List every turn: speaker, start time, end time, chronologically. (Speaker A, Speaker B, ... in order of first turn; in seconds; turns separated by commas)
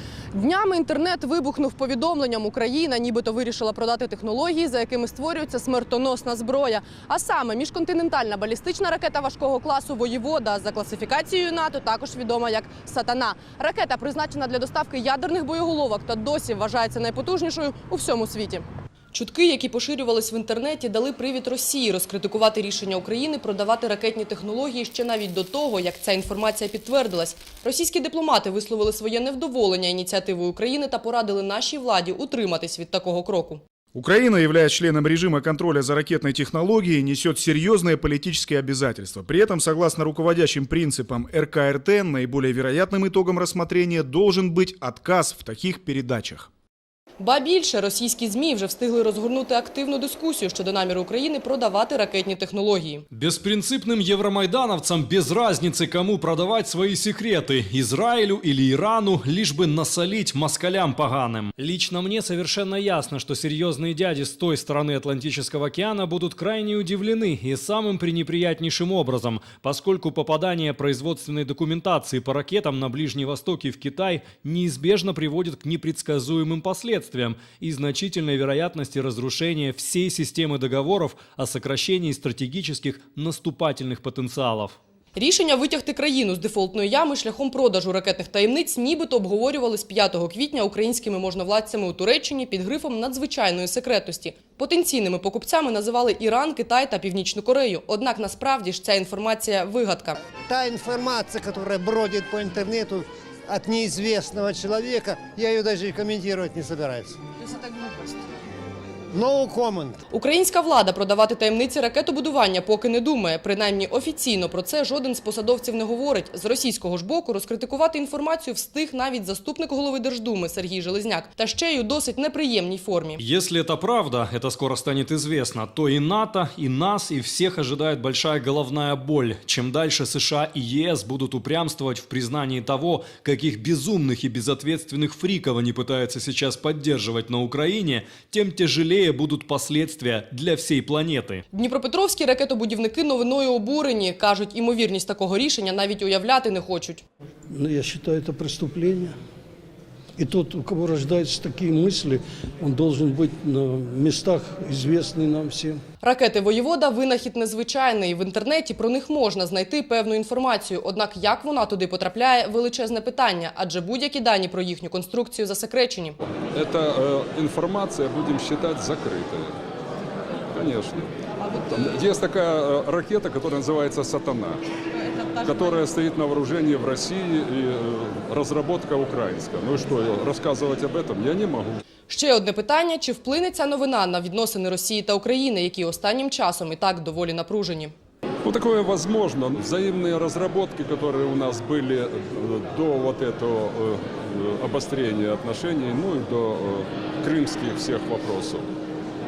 Speaker A: 0.3-33.6, Speaker B: 33.9-46.5, Speaker A: 47.2-53.0, Speaker C: 53.1-84.8, Speaker A: 85.1-100.2, Speaker D: 100.5-107.2, Speaker A: 107.8-108.1, Speaker D: 109.1-110.0, Speaker A: 110.1-123.2, Speaker C: 123.2-141.4, Speaker A: 141.5-147.0, Speaker E: 147.5-149.2, Speaker E: 150.2-155.8, Speaker A: 156.0-166.2, Speaker F: 166.5-169.6, Speaker F: 170.5-174.6, Speaker F: 175.4-181.8, Speaker A: 182.1-187.9, Speaker F: 188.4-198.7